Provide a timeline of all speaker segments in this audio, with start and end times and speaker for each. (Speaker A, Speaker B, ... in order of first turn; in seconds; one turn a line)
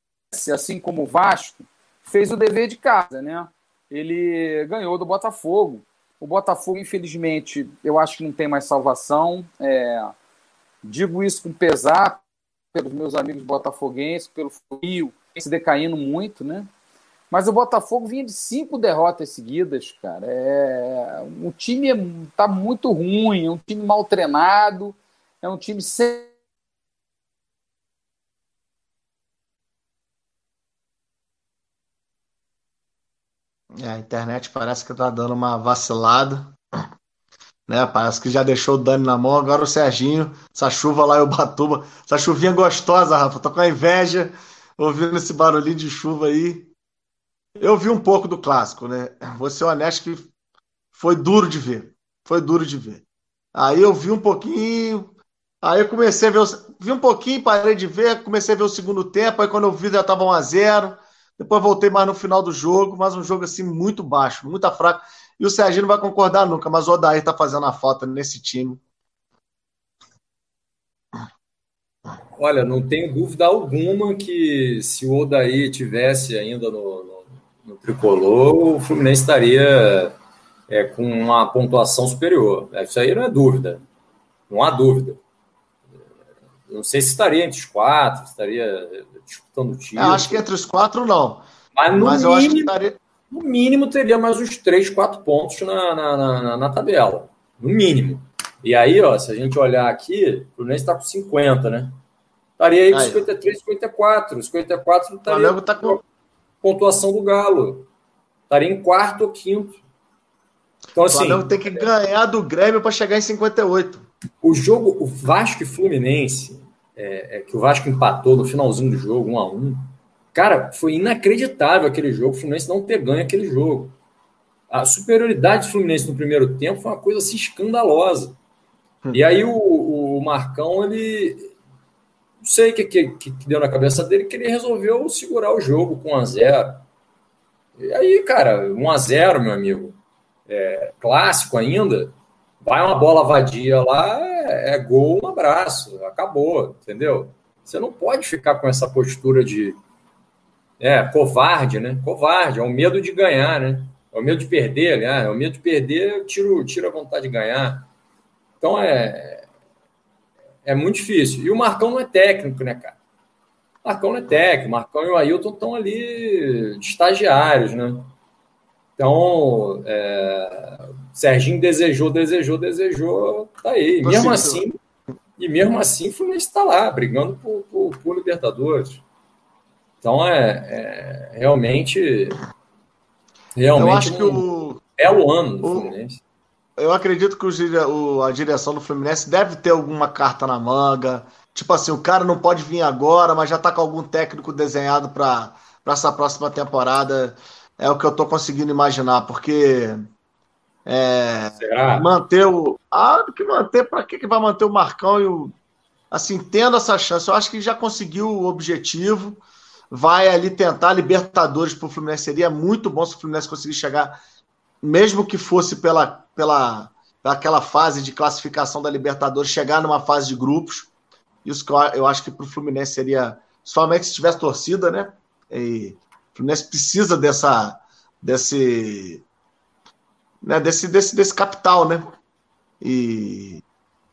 Speaker A: 0.3-10.1
Speaker A: 10.8-16.7
Speaker A: 17.3-26.3
Speaker B: 33.8-36.5
Speaker B: 37.7-46.7
Speaker B: 47.6-50.3
Speaker B: 50.9-53.0
Speaker B: 53.5-68.8
Speaker C: 72.4-80.1
Speaker C: 80.7-83.8
Speaker C: 84.5-85.2
Speaker C: 86.7-90.4
Speaker B: 90.0-93.0
Speaker C: 91.7-92.7
Speaker C: 93.3-101.9
Speaker C: 102.6-106.0
Speaker B: 102.9-103.3
Speaker B: 105.3-106.0
Speaker C: 106.6-107.9
Speaker C: 108.5-109.8
Speaker C: 110.9-111.9
Speaker B: 111.1-114.0
Speaker C: 114.4-123.9
Speaker C: 124.7-128.4
Speaker C: 129.1-131.5
Speaker C: 132.4-136.8
Speaker C: 137.8-140.0
Speaker C: 140.5-149.8
Speaker C: 150.8-157.9
Speaker C: 158.6-159.4
Speaker C: 160.6-163.0
Speaker C: 163.8-168.1
Speaker C: 169.0-174.8
Speaker B: 174.0-174.6
Speaker C: 175.4-179.0
Speaker C: 180.0-182.4
Speaker C: 183.5-184.4
Speaker B: 183.7-184.8
Speaker C: 185.0-186.2
Speaker B: 185.6-185.9
Speaker B: 186.8-200.0
Speaker B: 200.8-205.5
Speaker C: 201.6-202.1
Speaker B: 206.1-214.2
Speaker B: 214.8-220.9
Speaker B: 221.4-229.2
Speaker B: 230.4-232.1
Speaker B: 232.8-233.6